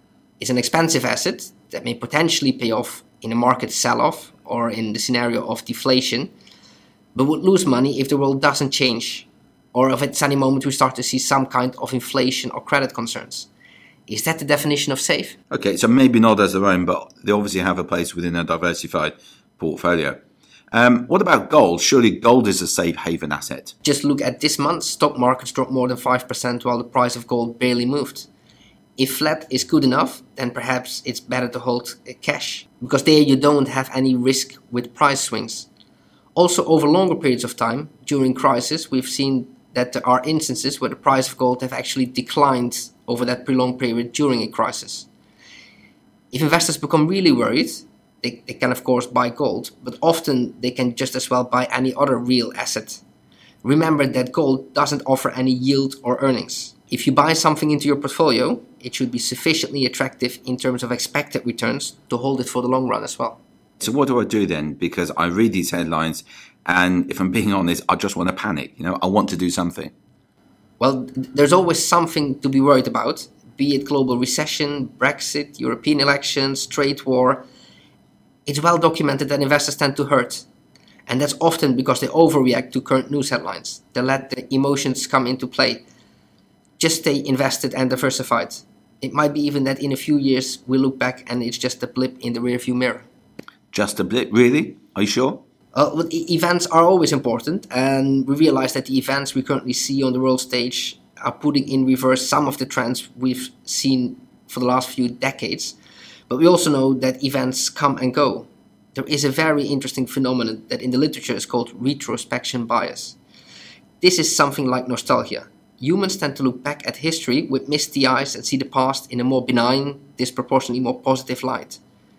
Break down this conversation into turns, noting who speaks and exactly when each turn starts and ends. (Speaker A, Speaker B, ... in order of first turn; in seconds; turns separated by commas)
Speaker A: 0.4-6.3, Speaker A: 7.1-13.5, Speaker A: 14.1-15.4, Speaker B: 15.5-20.2, Speaker B: 20.7-23.7, Speaker A: 23.8-28.3, Speaker A: 29.0-35.7, Speaker A: 36.3-45.1, Speaker A: 46.3-53.0, Speaker A: 53.6-63.4, Speaker B: 63.8-69.9, Speaker A: 70.8-77.4, Speaker A: 78.5-80.5, Speaker A: 81.1-85.8, Speaker A: 86.8-93.1, Speaker B: 93.7-95.4, Speaker A: 95.7-105.8, Speaker A: 106.3-113.2, Speaker A: 114.0-121.8